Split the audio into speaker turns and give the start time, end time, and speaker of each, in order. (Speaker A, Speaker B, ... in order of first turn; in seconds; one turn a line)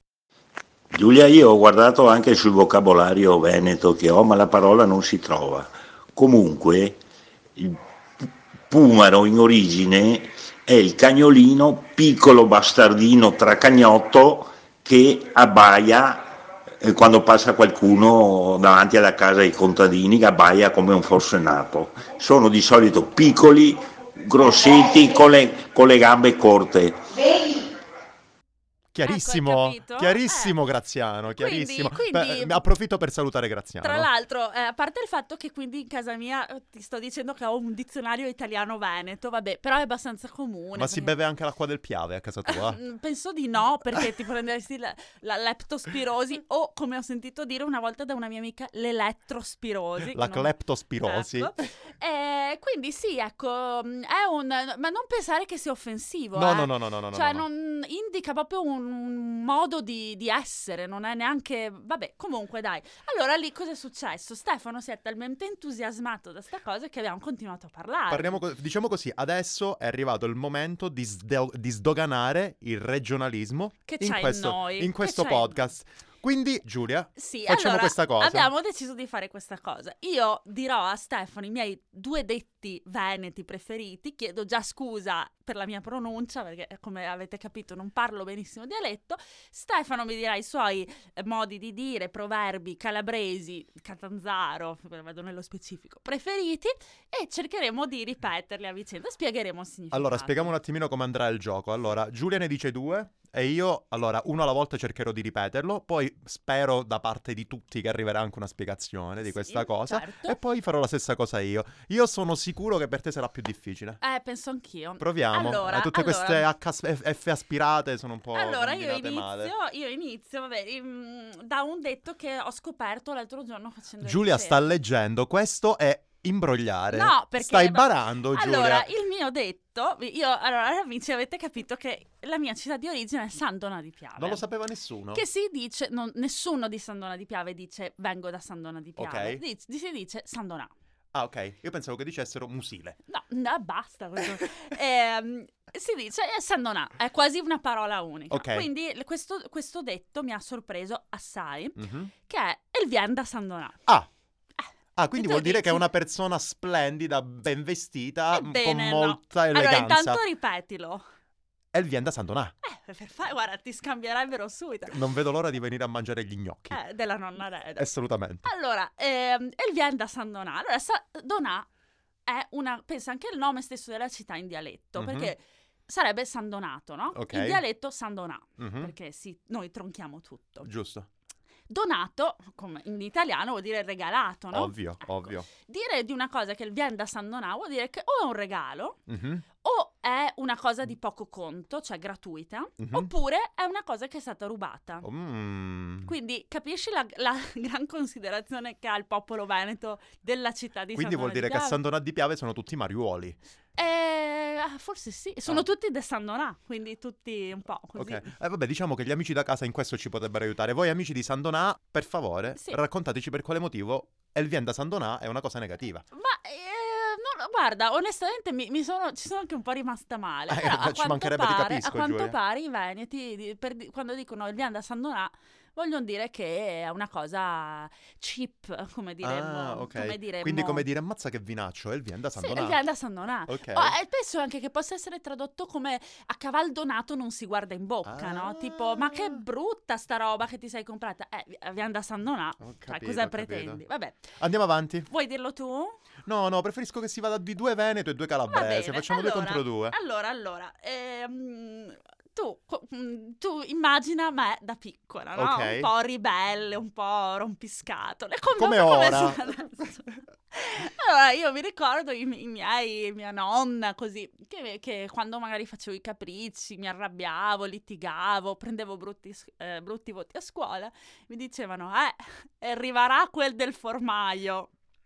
Speaker A: 0.9-7.0
Speaker A: 7.6-16.3
Speaker A: 16.8-27.6
Speaker B: 28.9-34.1
Speaker C: 29.0-30.6
Speaker C: 31.3-32.6
Speaker C: 33.8-41.2
Speaker B: 40.7-42.8
Speaker C: 42.5-68.4
Speaker B: 50.1-51.5
Speaker B: 56.3-57.5
Speaker B: 68.1-78.5
Speaker C: 73.9-75.7
Speaker C: 77.2-100.5
Speaker B: 99.9-114.0
Speaker C: 109.2-110.4
Speaker C: 114.0-116.5
Speaker B: 115.0-119.5
Speaker C: 118.3-124.6
Speaker B: 124.0-128.9
Speaker C: 126.9-134.4
Speaker B: 134.2-135.2
Speaker C: 135.1-140.7
Speaker B: 139.0-139.4
Speaker B: 141.1-143.0
Speaker C: 143.1-153.8
Speaker B: 148.3-148.7
Speaker B: 151.8-152.1
Speaker B: 155.0-160.2
Speaker C: 155.2-155.9
Speaker C: 158.3-161.0
Speaker B: 161.7-162.5
Speaker C: 162.6-165.0
Speaker B: 164.9-166.8
Speaker C: 166.7-167.9
Speaker B: 167.8-168.5
Speaker C: 168.4-171.7
Speaker C: 172.2-180.7
Speaker B: 175.0-175.3
Speaker B: 177.1-177.6
Speaker B: 178.6-178.9
Speaker B: 180.6-181.1
Speaker C: 181.7-189.0
Speaker B: 184.5-185.5
Speaker B: 189.1-189.4
Speaker C: 189.6-195.1
Speaker B: 192.8-193.1
Speaker B: 195.0-196.1
Speaker C: 196.1-201.8
Speaker B: 200.9-203.4
Speaker C: 203.8-208.3
Speaker B: 208.0-216.0
Speaker C: 216.1-230.9
Speaker B: 220.5-222.3
Speaker B: 229.2-232.8
Speaker C: 232.3-244.4
Speaker B: 233.5-234.0
Speaker B: 238.0-239.4
Speaker B: 242.6-243.8
Speaker B: 244.4-245.1
Speaker C: 245.1-246.0
Speaker B: 246.2-250.0
Speaker C: 248.5-274.7
Speaker B: 255.3-255.9
Speaker B: 258.5-259.4